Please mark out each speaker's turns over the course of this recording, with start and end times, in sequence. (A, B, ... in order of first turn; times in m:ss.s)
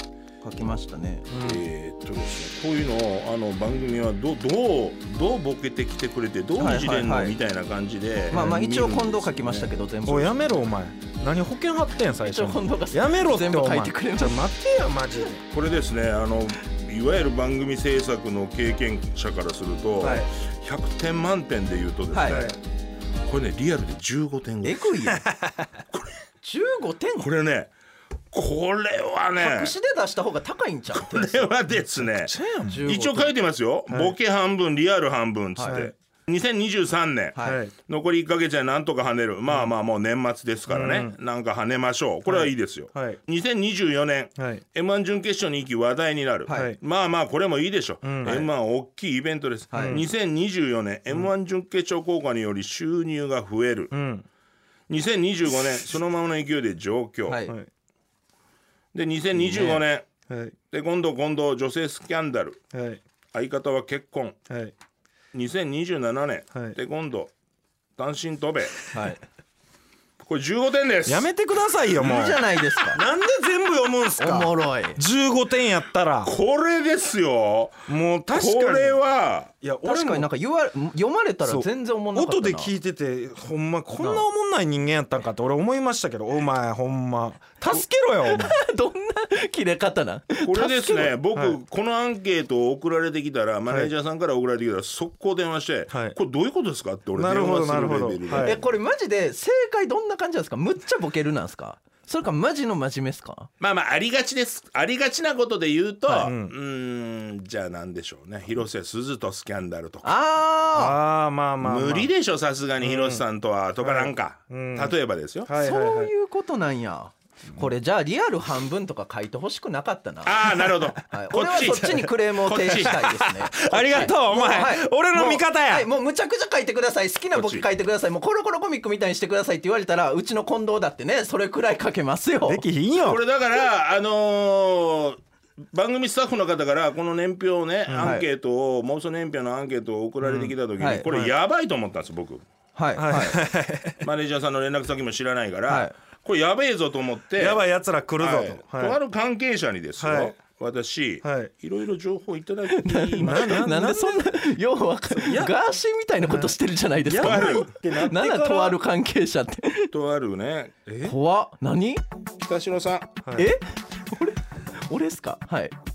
0:00.4-0:01.2 A
0:01.3-0:01.6 B
0:01.3-0:09.7 C
0:06.6-0:07.3 A
0:08.3-0:10.4 A
0:08.3-0:08.6 B
0:10.0-0:15.4 B
0:12.2-0:14.4 A
0:15.5-0:22.6 C
0:20.0-0:20.3 B
0:22.1-0:22.5 A
0:22.2-0:22.6 B
0:23.2-0:24.9 C
0:24.6-0:25.2 A
0:25.2-0:25.7 B
0:25.9-0:26.2 C
0:26.4-0:27.3 A
0:27.2-0:27.7 C
0:28.3-0:29.7 C
0:29.4-0:31.5 A
0:30.9-0:54.0 C
0:32.1-0:32.9 B
0:32.7-0:33.3 A
0:33.9-0:34.1 B
0:35.6-0:35.9 A
0:35.6-0:35.9 B
0:37.3-0:37.6 A
0:37.4-0:37.7 B
0:40.7-0:41.1 B
0:42.2-0:43.2 B
0:44.4-0:44.6 B
0:46.5-0:46.8 B
0:48.0-0:48.5 B
0:49.7-0:50.0 A
0:49.7-0:50.0 B
0:53.9-0:54.2 B
0:54.9-0:57.4 C
0:57.3-0:57.6 A
0:58.9-1:00.1 C
0:59.4-0:59.8 A
1:00.3-1:00.6 B
1:00.7-1:02.6 C
1:02.7-1:03.0 B
1:03.3-1:04.4 C
1:05.3-1:07.3 C
1:08.0-1:08.8 C
1:08.9-1:09.2 A
1:10.2-1:11.3 C
1:11.0-1:16.3 B
1:12.0-1:13.0 A
1:14.2-1:15.0 A
1:16.2-1:19.5 C
1:17.9-1:19.0 B
1:19.6-1:20.3 B
1:19.8-1:22.7 A
1:21.4-1:28.5 B
1:24.0-1:24.2 A
1:28.3-1:31.1 A
1:30.4-1:38.6 C
1:35.9-1:36.2 B
1:37.1-1:38.6 B
1:38.4-1:43.5 A
1:43.6-1:50.1 C
1:46.0-1:46.3 A
1:46.2-1:46.5 B
1:50.0-1:51.0 A
1:50.7-1:52.1 B
1:51.6-1:55.5 C
1:52.8-1:53.2 B
1:53.8-1:56.1 B
1:55.6-2:00.5 A
2:00.2-2:03.0 C
2:01.0-2:12.6 A
2:01.5-2:02.1 B
2:02.7-2:05.9 B
2:07.3-2:07.6 C
2:12.4-2:13.2 B
2:13.0-2:15.2 C
2:15.7-2:22.4 C
2:17.9-2:18.2 B
2:20.2-2:21.3 B
2:20.8-2:21.0 A
2:22.8-2:23.4 A
2:23.0-2:24.0 B
2:24.0-2:27.6 C
2:25.7-2:25.9 A
2:27.4-2:29.0 B
2:28.2-2:33.7 C
2:30.0-2:30.3 B
2:31.2-2:31.5 B
2:32.7-2:39.9 A
2:33.2-2:34.4 B
2:35.1-2:35.5 B
2:36.2-2:38.8 B
2:37.2-2:37.7 C
2:39.9-2:40.7 C
2:40.8-2:41.2 B
2:41.0-2:42.0 A
2:42.4-2:43.1 C
2:43.2-2:43.5 B
2:43.4-2:45.7 A